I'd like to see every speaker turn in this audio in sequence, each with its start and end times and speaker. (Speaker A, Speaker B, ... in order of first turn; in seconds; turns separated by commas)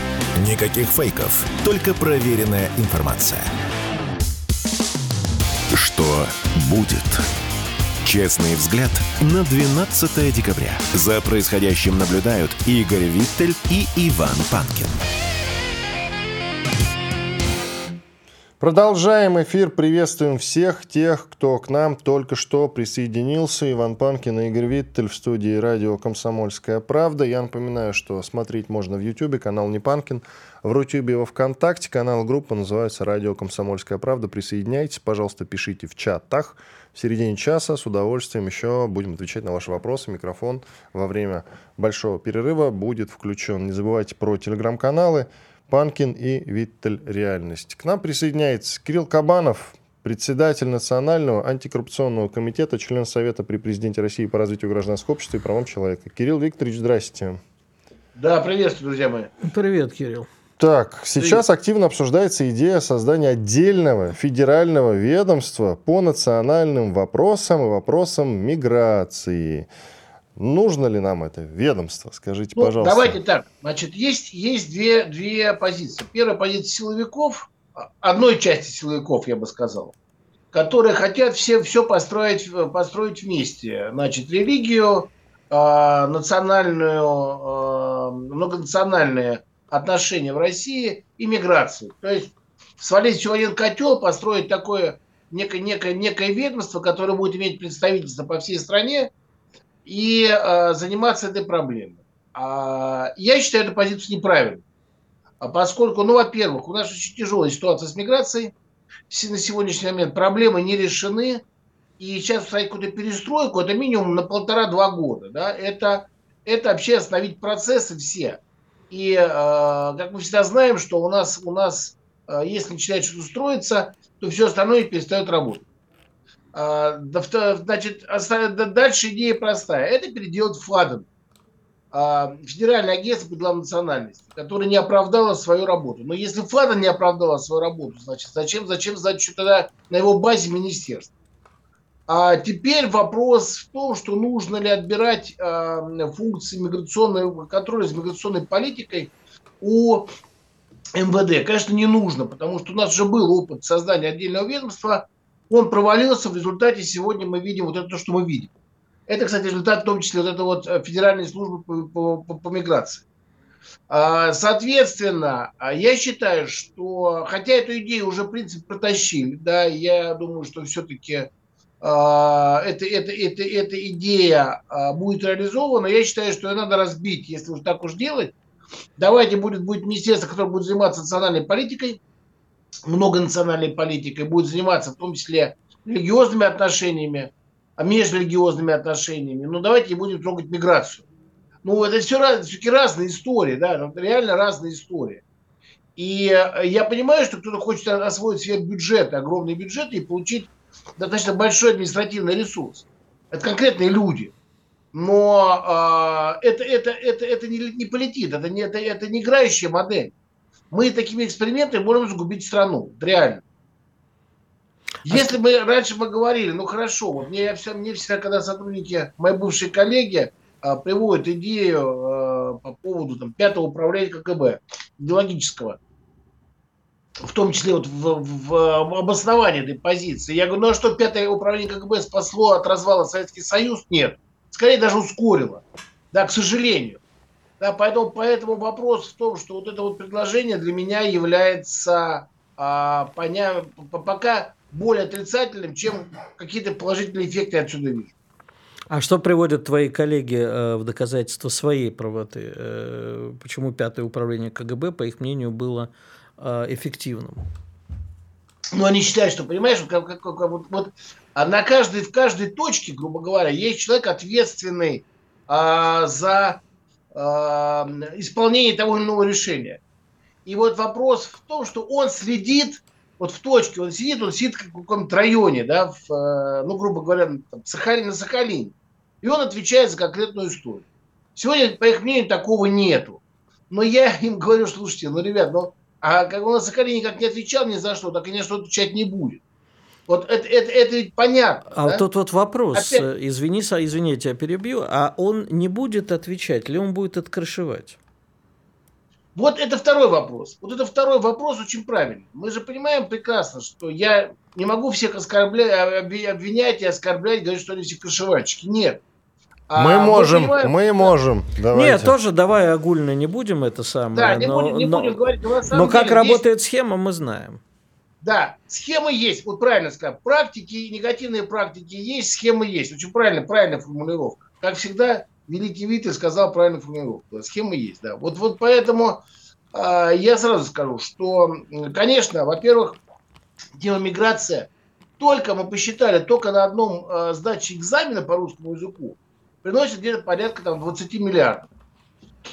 Speaker A: 0.4-3.5, Speaker A: 5.7-7.2, Speaker A: 8.0-15.0, Speaker B: 18.6-57.4, Speaker C: 58.1-59.3, Speaker D: 59.4-60.3, Speaker B: 60.6-69.7, Speaker B: 70.3-73.2, Speaker C: 72.5-79.9, Speaker C: 80.5-99.1, Speaker C: 99.8-104.6, Speaker C: 105.4-108.5, Speaker C: 109.1-111.4, Speaker C: 112.0-118.4, Speaker C: 118.9-125.6, Speaker C: 126.5-131.1, Speaker C: 131.9-141.1, Speaker C: 142.1-150.1, Speaker C: 150.9-158.5, Speaker C: 159.1-163.0, Speaker C: 163.9-171.3, Speaker C: 171.8-178.3, Speaker C: 179.0-182.0, Speaker C: 182.9-191.0, Speaker C: 191.6-195.2, Speaker C: 195.9-204.3, Speaker C: 204.9-210.1, Speaker C: 210.7-213.4, Speaker D: 215.1-215.3, Speaker C: 215.1-225.8, Speaker C: 227.2-237.0, Speaker C: 237.6-248.1, Speaker D: 248.9-257.4, Speaker C: 258.7-266.6, Speaker C: 267.1-269.8, Speaker C: 270.4-280.8, Speaker C: 281.4-289.4, Speaker C: 290.1-292.0, Speaker D: 291.7-298.0, Speaker C: 292.7-293.0, Speaker C: 299.3-309.0, Speaker C: 309.7-311.1, Speaker B: 309.7-312.1, Speaker D: 311.7-315.2, Speaker C: 314.1-316.4, Speaker D: 315.7-317.6, Speaker C: 318.2-329.2, Speaker C: 329.7-333.0, Speaker C: 333.8-341.7